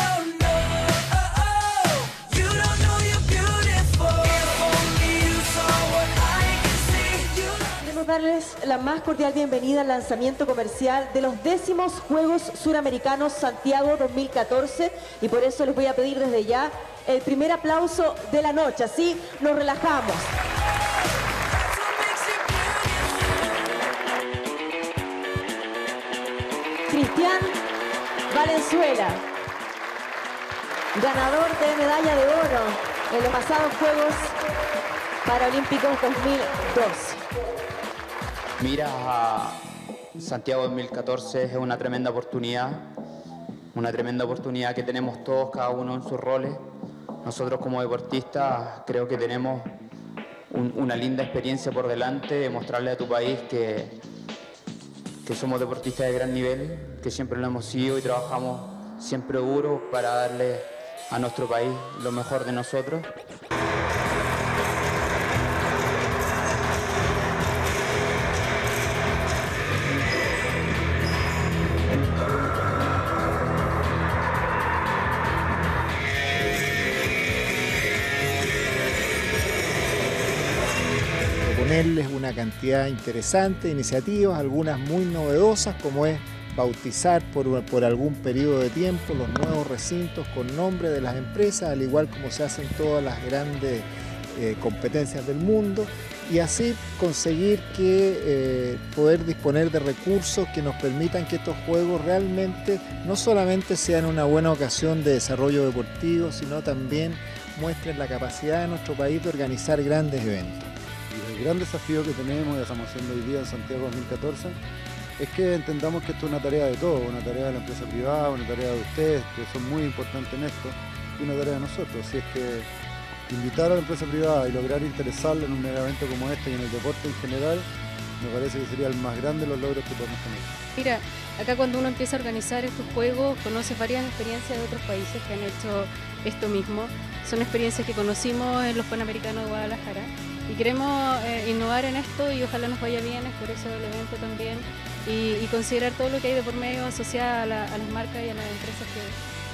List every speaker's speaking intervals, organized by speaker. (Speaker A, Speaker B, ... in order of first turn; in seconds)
Speaker A: 2.1-2.5, 3.1-4.2, 4.8-7.3, 130.8-149.2
Speaker B: 7.8-20.3, 26.9-27.6, 28.3-29.2, 30.9-34.4, 35.2-37.2
Speaker C: 38.6-39.6, 40.2-42.9, 43.7-46.6, 47.2-49.7, 50.5-54.0, 55.2-63.1
Speaker D: 81.4-110.7
Speaker E: 111.1-114.6, 115.2-122.7, 123.3-127.7, 128.2-130.5